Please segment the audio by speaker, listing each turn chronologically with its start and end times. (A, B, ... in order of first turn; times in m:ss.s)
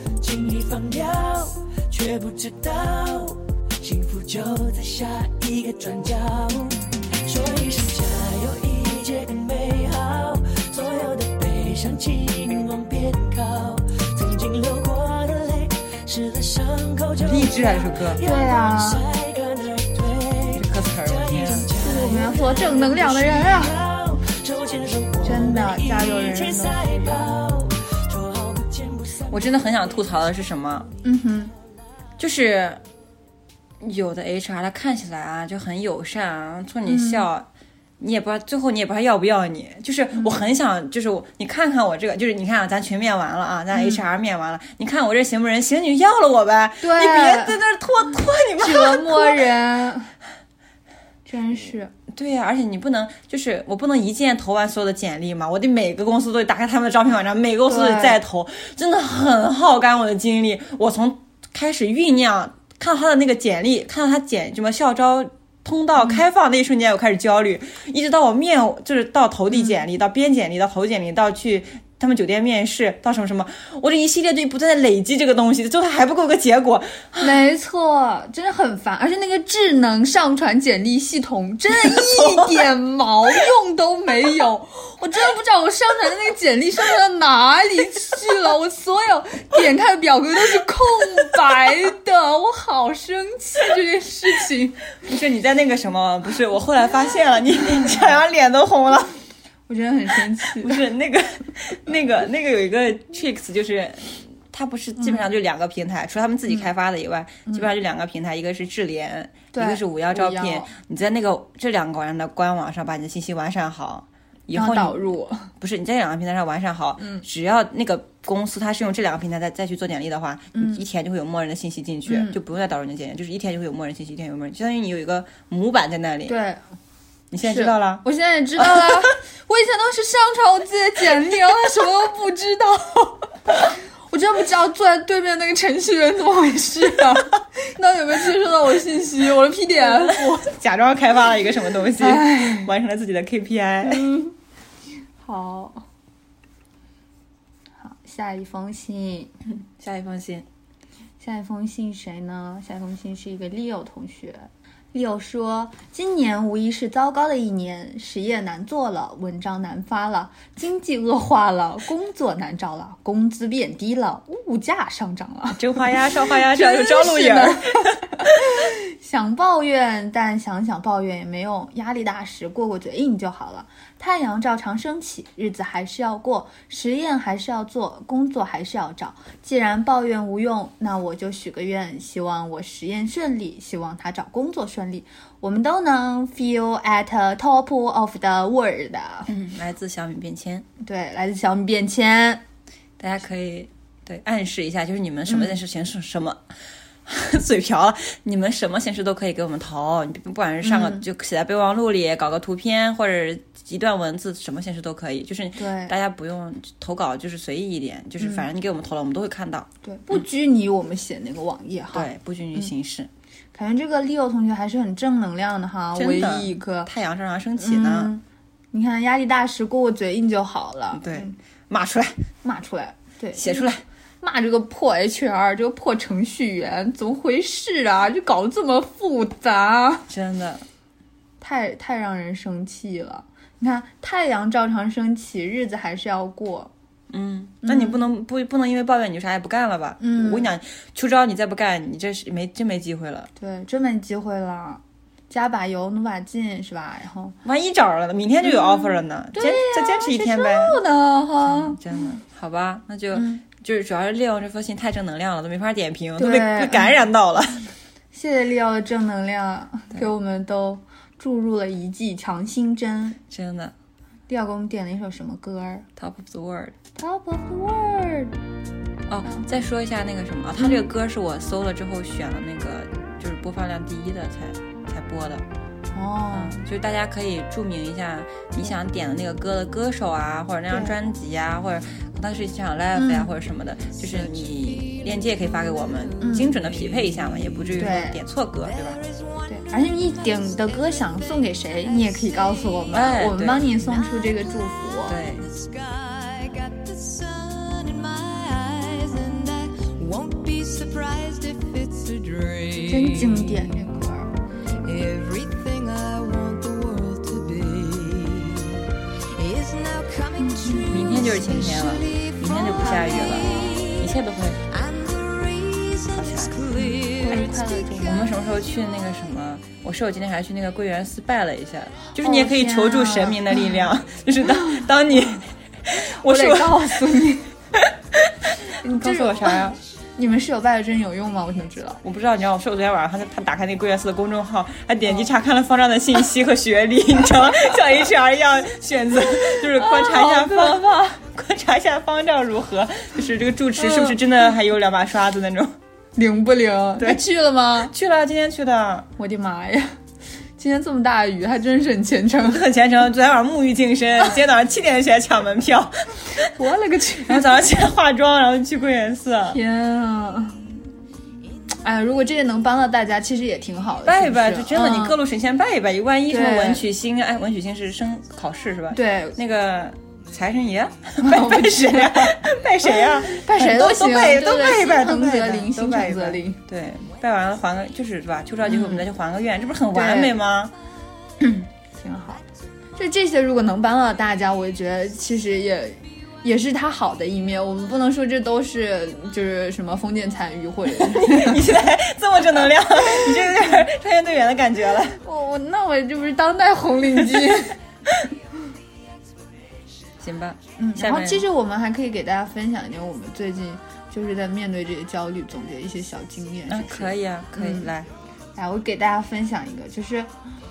0:00.2-0:06.7 A
0:07.3-0:17.2 A
0:17.2-0:18.2 B
0:18.2-0:19.1 C
0:20.5-0:21.8 B
0:21.7-0:23.8 C
0:24.3-0:25.1 A
0:25.2-0:27.2 C
0:29.3-0:30.9 B
0:31.0-0:31.5 C
0:32.2-0:32.8 B
0:33.8-0:37.5 B
0:36.9-0:37.3 C
0:38.0-0:49.5 B
0:40.1-0:40.4 C
0:43.7-0:44.0 C
0:46.8-0:47.6 C
0:48.6-0:50.1 C
0:51.3-0:51.9 C
0:52.1-1:17.4 B
0:57.7-0:58.2 C
1:17.2-1:34.9 C
1:21.8-1:22.6 B
1:35.0-1:39.2 B
1:39.7-1:40.8 C
1:40.6-1:55.0 B
1:49.5-1:50.7 C
1:54.5-1:55.5 C
1:55.6-2:06.4 B
1:57.0-1:57.2 C
2:00.5-2:00.8 C
2:02.1-2:02.4 C
2:06.3-2:06.6 C
2:07.3-2:08.0 B
2:07.4-2:20.5 C
2:08.6-2:09.1 B
2:19.8-2:24.1 B
2:22.0-2:22.7 C
2:23.8-2:24.4 C
2:25.2-2:25.9 C
2:27.8-2:29.3 C
2:29.6-2:30.5 B
2:31.2-3:09.3 C
2:45.6-2:48.0 B
3:09.3-3:10.7 B
3:10.8-3:12.4 C
3:13.0-3:30.2 B
3:15.3-3:15.6 C
3:20.6-3:21.1 C
3:25.6-3:26.0 C
3:28.2-3:28.5 C
3:29.8-3:32.7 C
3:31.9-3:33.1 B
3:33.5-3:36.9 C
3:36.0-3:38.1 B
3:37.6-3:41.4 C
3:40.9-3:42.2 B
3:42.4-3:43.7 C
3:43.4-3:43.8 B
3:44.2-3:50.1 C
3:50.1-3:50.6 B
3:51.4-3:56.7 C
3:57.1-4:03.3 B
3:57.6-3:58.0 C
4:00.0-4:00.5 C
4:03.4-4:07.4 C
4:07.4-4:10.8 B
4:08.4-4:11.8 C
4:11.4-4:17.7 B
4:13.1-4:13.4 C
4:16.2-4:17.0 C
4:18.1-4:23.2 C
4:23.3-4:23.7 B
4:24.3-4:25.9 C
4:26.0-4:26.8 B
4:27.0-4:28.3 C
4:29.1-4:35.4 B
4:30.6-4:30.9 C
4:35.9-4:36.6 C
4:36.3-4:49.0 B
4:40.7-4:41.0 C
4:43.0-4:43.3 C
4:44.1-4:47.7 D
4:46.2-4:46.6 C
4:47.8-4:48.2 C
4:48.6-4:52.9 D
4:49.5-4:55.2 C
4:52.9-4:53.8 B
4:55.1-4:55.5 B
4:55.4-5:03.7 D
5:02.8-5:04.3 C
5:04.8-5:08.7 D
5:09.3-5:14.1 D
5:10.4-5:11.2 C
5:10.9-5:14.6 B
5:14.7-5:18.0 D
5:16.1-5:16.6 B
5:16.8-5:18.4 C
5:17.3-5:27.0 B
5:22.2-5:23.9 C
5:26.2-5:27.5 C
5:27.7-5:29.8 B
5:28.8-5:29.6 C
5:30.2-5:32.0 C
5:32.0-5:45.8 B
5:39.5-5:41.2 C
5:43.8-5:44.2 C
5:46.2-5:47.9 C
5:47.8-5:49.1 B
5:49.2-5:50.0 C
5:50.6-5:52.6 C
5:52.4-5:56.5 B
5:56.4-5:57.5 C
5:57.3-5:59.6 B
5:59.5-6:00.7 C
6:01.8-6:05.2 C
6:04.0-6:20.8 B
6:06.3-6:06.8 C
6:08.9-6:09.4 C
6:11.2-6:12.3 C
6:12.8-6:16.6 C
6:18.6-6:19.1 C
6:19.9-6:20.4 C
6:21.4-6:22.4 C
6:23.0-6:31.6 C
6:30.9-6:35.2 B
6:33.2-6:33.7 C
6:35.2-6:37.8 C
6:40.2-6:41.5 B
6:40.8-6:47.9 C
6:46.7-6:48.1 B
6:48.6-6:50.3 C